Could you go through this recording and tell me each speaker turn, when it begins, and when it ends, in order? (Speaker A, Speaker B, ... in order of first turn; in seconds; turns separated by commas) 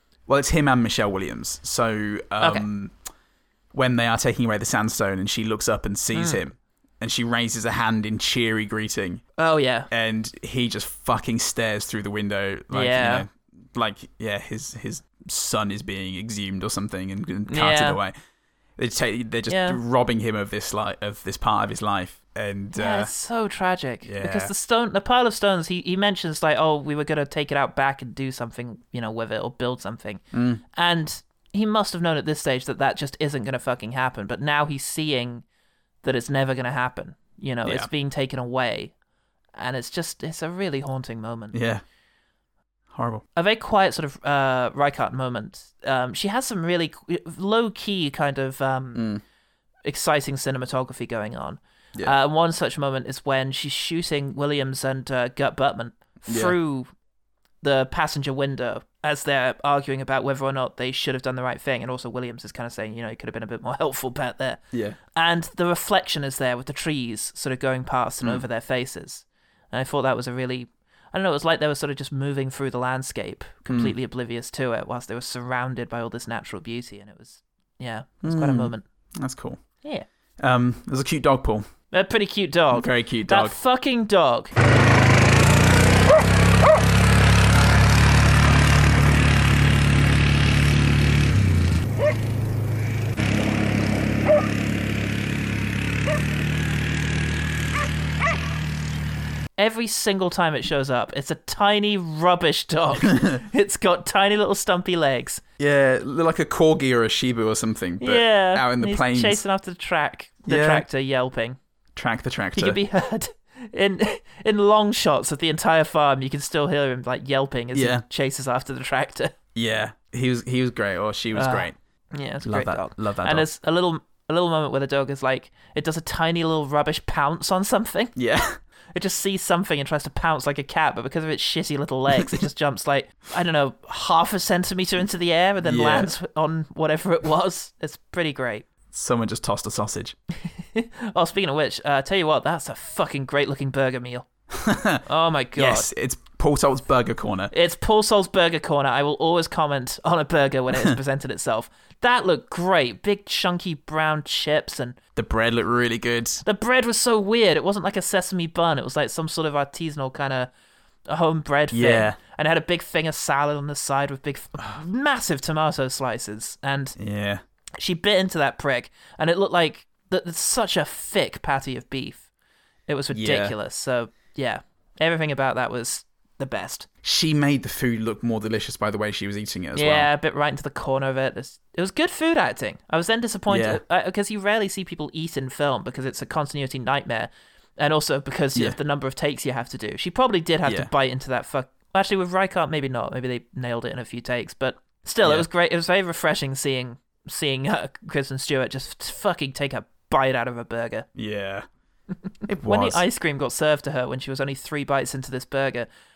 Speaker A: 0.3-2.9, Speaker B: 2.4-2.7, Speaker A: 3.7-9.2, Speaker B: 6.1-6.4, Speaker B: 9.4-9.9, Speaker A: 9.9-18.1, Speaker B: 12.7-13.3, Speaker B: 17.5-18.0, Speaker A: 18.8-23.1, Speaker B: 19.5-19.8, Speaker B: 22.8-30.2, Speaker A: 24.0-24.5, Speaker A: 30.3-30.6, Speaker B: 30.8-35.4, Speaker B: 36.0-38.9, Speaker B: 39.6-41.6, Speaker A: 41.5-41.8, Speaker A: 42.9-43.2, Speaker B: 43.4-49.1, Speaker A: 49.0-49.2, Speaker B: 49.9-56.9, Speaker A: 56.3-56.6, Speaker B: 57.6-64.6, Speaker A: 64.7-65.0, Speaker B: 65.2-78.8, Speaker A: 73.7-73.9, Speaker A: 78.2-79.8, Speaker A: 80.4-81.7, Speaker B: 81.9-84.5, Speaker A: 82.7-83.6, Speaker B: 99.6-105.4, Speaker A: 105.6-109.4, Speaker B: 108.0-111.6, Speaker A: 110.5-110.8, Speaker A: 112.0-112.8, Speaker B: 112.6-119.3, Speaker A: 117.8-118.0, Speaker A: 119.5-121.8, Speaker B: 121.3-128.1, Speaker A: 122.4-123.5, Speaker A: 128.2-128.6, Speaker B: 128.9-138.7, Speaker A: 135.6-136.1, Speaker A: 138.9-140.2, Speaker B: 140.7-144.3, Speaker A: 144.5-145.0, Speaker B: 145.1-145.9, Speaker A: 145.6-147.5, Speaker B: 147.5-155.0, Speaker A: 155.2-156.4, Speaker B: 156.4-160.5, Speaker B: 161.1-167.0, Speaker A: 161.7-162.2, Speaker A: 167.0-167.4, Speaker B: 167.8-172.3, Speaker B: 172.9-176.9, Speaker A: 173.1-173.5, Speaker A: 177.0-180.1, Speaker B: 179.8-201.1, Speaker A: 183.5-183.8, Speaker A: 190.7-190.9, Speaker A: 201.2-201.7, Speaker A: 202.5-203.0, Speaker B: 202.6-205.9